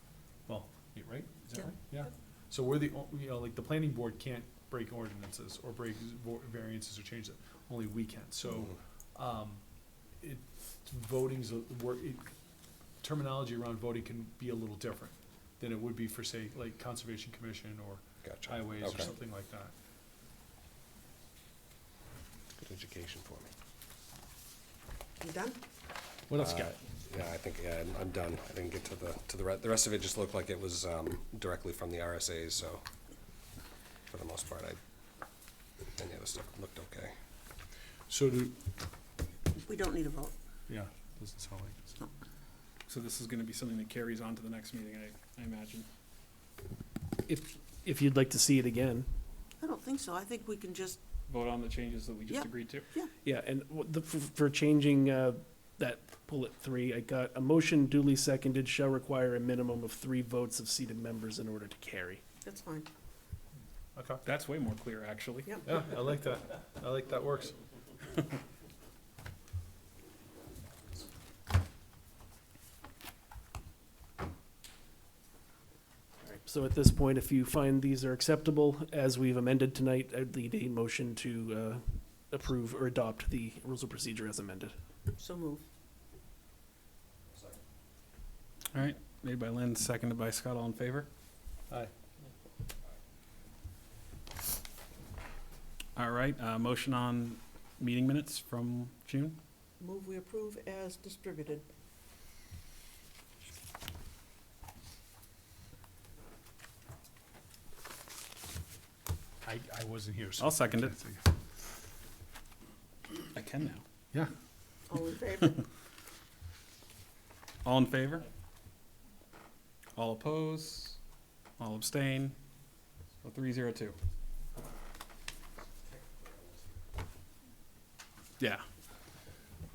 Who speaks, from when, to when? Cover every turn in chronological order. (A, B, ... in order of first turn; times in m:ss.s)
0:00.5-0:09.6 A
0:10.2-0:12.3 A
0:13.0-0:19.7 A
0:18.2-0:19.1 B
0:22.6-0:23.5 B
0:25.2-0:25.6 C
0:26.3-0:26.8 A
0:26.4-0:32.8 B
0:34.1-0:34.8 B
0:36.0-0:37.1 B
0:38.1-0:38.5 A
0:39.6-0:40.4 C
0:40.7-0:41.9 A
0:42.9-0:45.9 D
0:47.2-0:49.1 E
0:49.6-0:51.0 C
0:51.3-0:52.9 D
0:52.3-0:53.1 C
0:53.2-1:02.2 E
1:02.4-1:02.9 C
1:04.0-1:04.2 A
1:04.2-1:05.6 D
1:05.6-1:07.6 A
1:16.2-1:24.8 E
1:25.1-1:25.7 C
1:28.7-1:31.1 D
1:36.0-1:39.4 D
1:39.8-1:41.7 C
1:49.4-1:51.2 A
1:50.4-1:50.9 D
1:53.3-1:53.8 D
1:54.9-1:55.6 C
1:57.6-1:58.3 D
2:00.0-2:01.0 D
2:01.6-2:02.4 D
2:03.2-2:04.0 D
2:05.8-2:06.8 B
2:08.4-2:08.7 D